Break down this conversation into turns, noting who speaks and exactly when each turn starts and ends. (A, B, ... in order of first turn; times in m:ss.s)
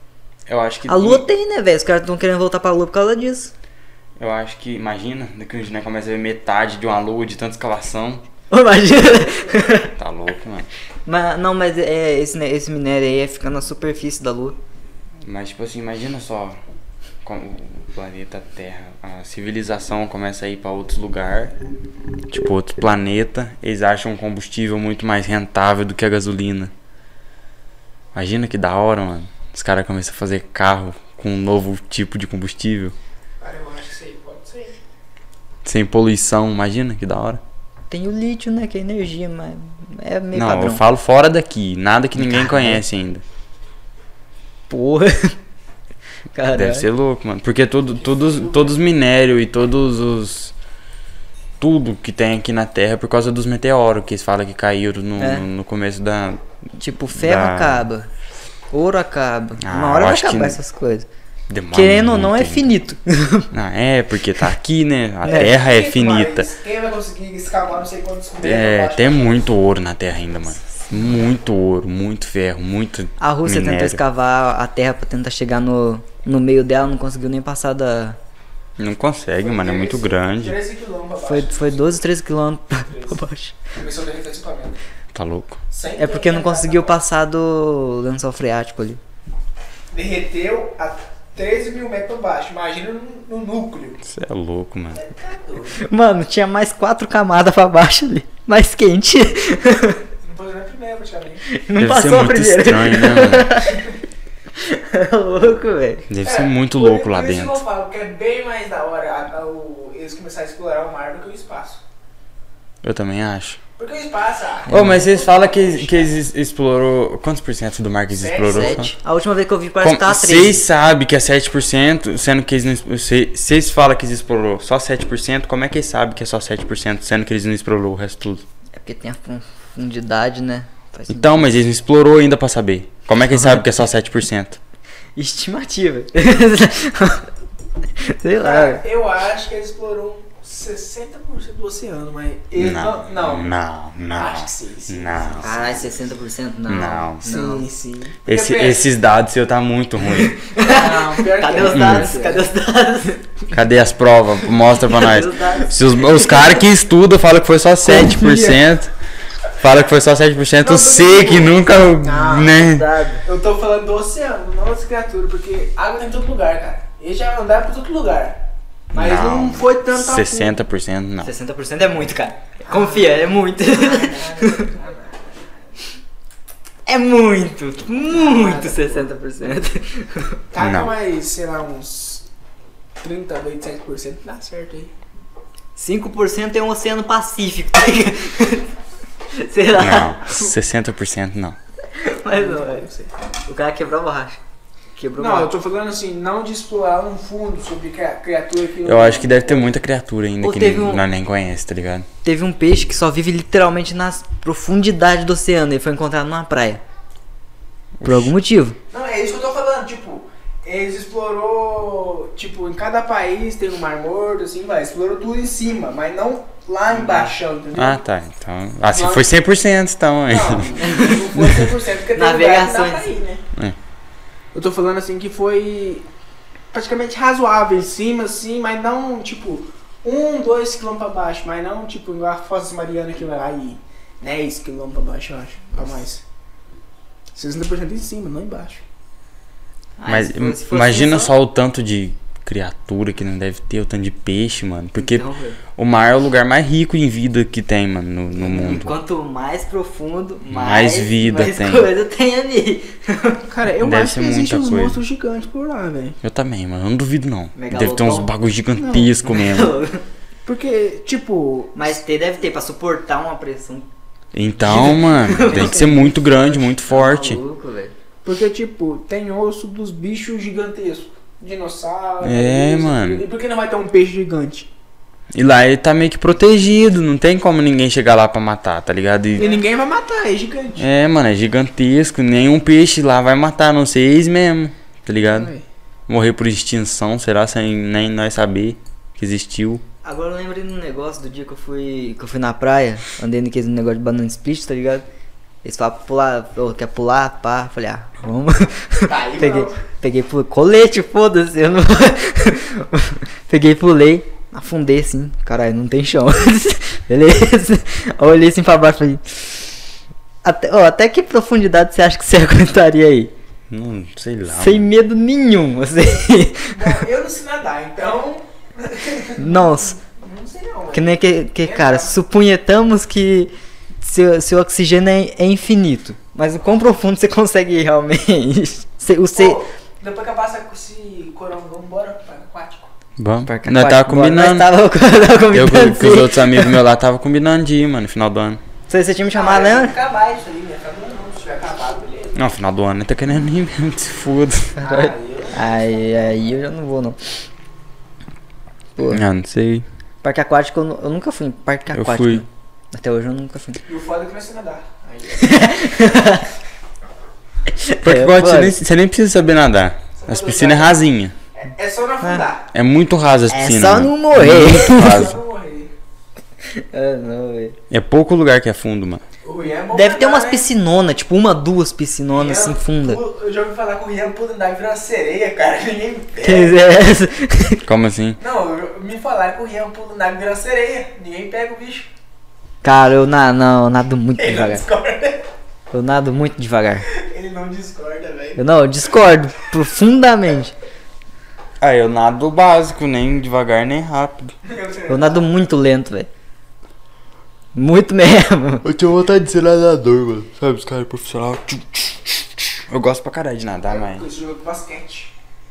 0:00.5-0:01.3 A
0:00.9-0:03.5 B
0:04.2-0:08.2 A
0:08.5-0:09.9 B
0:09.9-0:10.7 A
0:11.0-0:14.6 B
0:15.2-0:16.6 A
0:17.2-0:21.5 A
0:22.3-0:26.7 A
0:28.1-0:32.9 A
0:33.4-0:34.7 C
0:35.6-0:37.4 A
0:37.9-0:40.8 B
0:40.3-0:43.2 A
0:42.2-0:42.8 B
0:44.7-0:45.4 B
0:46.3-0:46.9 B
0:46.5-0:50.5 A
0:51.6-0:56.4 A
0:55.2-0:55.4 B
0:56.8-0:58.1 B
0:57.1-0:57.8 A
0:58.7-1:01.1 B
0:59.6-1:00.6 A
1:01.5-1:02.7 A
1:01.7-1:03.5 B
1:03.5-1:06.5 A
1:05.2-1:05.5 B
1:05.3-1:09.4 C
1:08.4-1:14.0 A
1:13.2-1:18.2 B
1:18.8-1:20.6 A
1:19.4-1:21.9 C
1:21.2-1:23.5 B
1:22.9-1:23.2 C
1:23.7-1:24.8 C
1:25.1-1:25.6 A
1:25.7-1:27.0 C
1:26.0-1:29.0 B
1:29.9-1:34.0 C
1:34.0-1:35.1 A
1:34.9-1:35.8 C
1:35.7-1:40.0 B
1:40.2-1:41.4 C
1:41.5-1:43.8 B
1:41.8-1:43.6 A
1:44.6-1:46.1 B
1:46.1-1:47.6 A
1:46.2-1:51.8 C
1:52.8-1:53.6 A
1:53.8-1:56.1 C
1:54.7-1:55.0 B
1:54.7-1:58.9 A
1:58.2-1:58.9 C
1:58.4-2:00.6 B
1:59.8-2:08.4 A
2:08.8-2:11.5 B
2:11.1-2:14.6 A
2:13.3-2:13.6 B
2:15.2-2:17.3 B
2:18.0-2:18.8 B
2:18.4-2:23.5 C
2:22.6-2:25.6 A
2:24.1-2:25.9 C
2:25.4-2:27.7 B
2:26.7-2:27.2 A
2:27.2-2:28.9 C
2:28.2-2:30.4 A
2:30.2-2:33.2 B
2:30.6-2:32.4 C
2:31.6-2:32.1 A
2:33.5-2:38.9 A
2:34.9-2:36.4 B
2:37.9-2:38.6 C
2:39.6-2:42.9 A
2:40.6-2:42.6 C
2:42.5-2:43.2 B
2:43.2-2:48.4 C
2:48.9-2:50.5 C
2:48.9-2:51.3 A
2:51.2-2:54.7 B
2:52.7-2:55.4 C
2:56.9-3:00.4 B
2:58.1-2:59.1 C
3:00.5-3:02.2 C
3:00.6-3:01.0 A
3:03.0-3:04.9 C
3:05.8-3:08.7 B
3:09.3-3:10.5 B
3:09.7-3:11.6 A
3:11.9-3:12.9 B
3:12.3-3:13.1 C
3:13.4-3:14.4 B
3:15.0-3:15.5 B
3:15.2-3:19.7 C
3:18.8-3:22.1 A
3:20.4-3:21.0 B
3:22.2-3:26.8 B
3:28.0-3:28.3 A
3:28.0-3:28.8 B
3:28.9-3:38.0 C
3:37.0-3:37.3 B
3:37.7-3:40.8 A
3:38.9-3:39.3 C
3:40.3-3:43.4 C
3:40.8-3:41.4 B
3:41.3-3:41.7 A
3:42.1-3:43.0 B
3:44.5-3:46.0 C
3:46.7-3:56.2 C
3:57.3-3:58.8 C
4:00.0-4:01.3 B
4:00.1-4:08.9 A
4:05.0-4:05.6 B
4:08.3-4:13.5 B
4:10.5-4:11.9 A
4:13.5-4:16.2 C
4:13.8-4:15.0 A
4:16.2-4:19.8 A
4:17.6-4:20.0 B
4:20.4-4:21.9 C
4:21.7-4:23.9 B
4:24.3-4:27.4 A
4:24.6-4:27.9 B
4:28.2-4:34.7 C
4:32.2-4:33.2 A
4:35.3-4:39.6 A
4:39.4-4:40.8 C
4:40.8-4:45.5 A
4:45.2-4:45.6 C
4:46.1-4:49.8 A
4:50.0-4:55.0 B
4:55.6-5:09.4 B
4:59.0-4:59.8 C
5:10.4-5:13.3 B
5:13.7-5:14.9 A
5:14.5-5:17.0 B
5:16.7-5:22.1 C
5:19.4-5:20.0 B
5:20.9-5:29.6 B
5:29.4-5:32.9 C
5:33.2-5:34.7 A
5:33.5-5:36.8 B
5:35.5-5:38.6 A
5:38.9-5:40.0 B
5:39.3-5:42.4 C
5:42.4-5:44.7 A
5:44.8-5:47.2 B
5:44.8-5:45.9 C
5:49.0-5:49.2 B
5:49.1-5:49.8 A
5:50.2-5:53.8 B
5:51.9-5:52.4 A
5:53.9-5:55.8 C
5:55.4-5:56.5 B
5:57.7-5:58.7 B
5:58.0-6:01.3 A
6:00.2-6:01.0 C
6:01.5-6:02.7 C
6:02.7-6:05.4 A
6:03.5-6:05.3 B
6:04.7-6:05.9 C
6:06.6-6:07.8 B
6:07.9-6:09.2 A
6:09.4-6:10.7 C
6:09.9-6:13.2 B
6:12.3-6:16.8 C
6:16.4-6:17.8 B
6:17.8-6:18.4 A
6:18.4-6:22.1 C
6:22.8-6:24.8 B
6:24.4-6:25.4 C
6:25.9-6:27.1 B
6:27.1-6:28.7 C
6:28.6-6:30.7 B
6:31.8-6:34.5 A
6:34.6-6:35.5 C
6:35.1-6:36.3 B
6:37.7-6:38.8 B
6:38.8-6:44.2 A
6:43.9-6:45.3 C